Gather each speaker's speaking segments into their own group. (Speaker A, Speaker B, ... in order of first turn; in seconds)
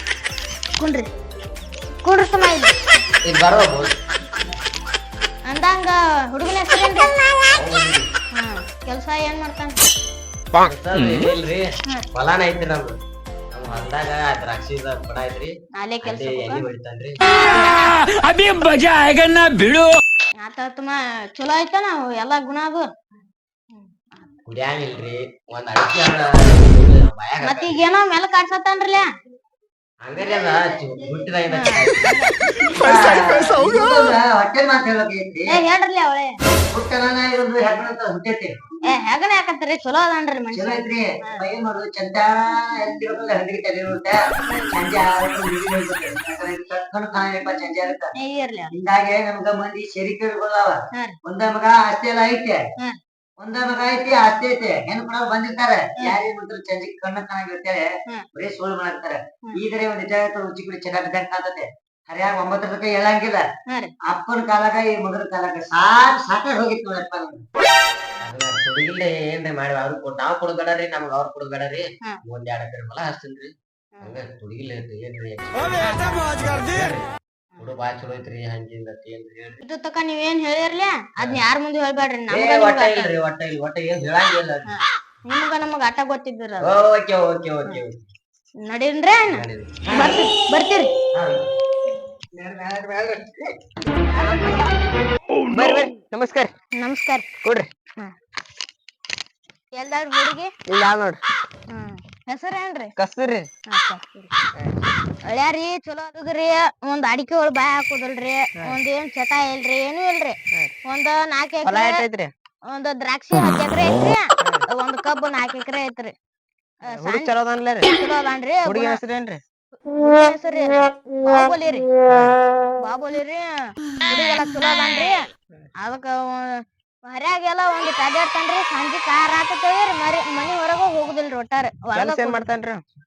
Speaker A: 0.8-1.1, 2.0-2.7, 5.5-7.2, 8.3-9.8, 15.8-16.7, 17.4-18.0, 20.4-22.9, 27.4-29.1, 31.5-32.3, 35.5-36.4, 38.9-41.4, 48.2-48.7, 63.7-63.9, 75.8-76.3, 79.6-83.1, 84.7-86.7, 88.6-90.9, 94.1-94.7, 96.8-97.3, 99.8-100.5, 101.7-102.9, 103.7-104.3, 105.3-112.1, 112.7-116.1, 116.9-117.3, 117.9-119.0, 119.8-121.9, 122.8-123.5, 124.0-132.4
Speaker B: 3.2-4.0, 7.5-8.1, 10.6-12.9, 13.5-17.2, 24.5-27.8, 30.0-32.0, 68.2-75.8, 76.4-79.6, 82.3-84.7, 86.6-88.0, 89.3-89.8
Speaker C: 32.8-35.6, 36.7-38.5, 40.5-44.2, 44.7-48.1, 48.7-52.6, 53.4-63.4, 64.1-67.4, 89.9-90.2, 92.4-93.1
Speaker D: 95.5-96.5, 100.7-101.2, 103.0-103.5, 111.6-112.3, 116.9-117.9, 118.7-119.4, 122.1-122.3, 131.9-132.8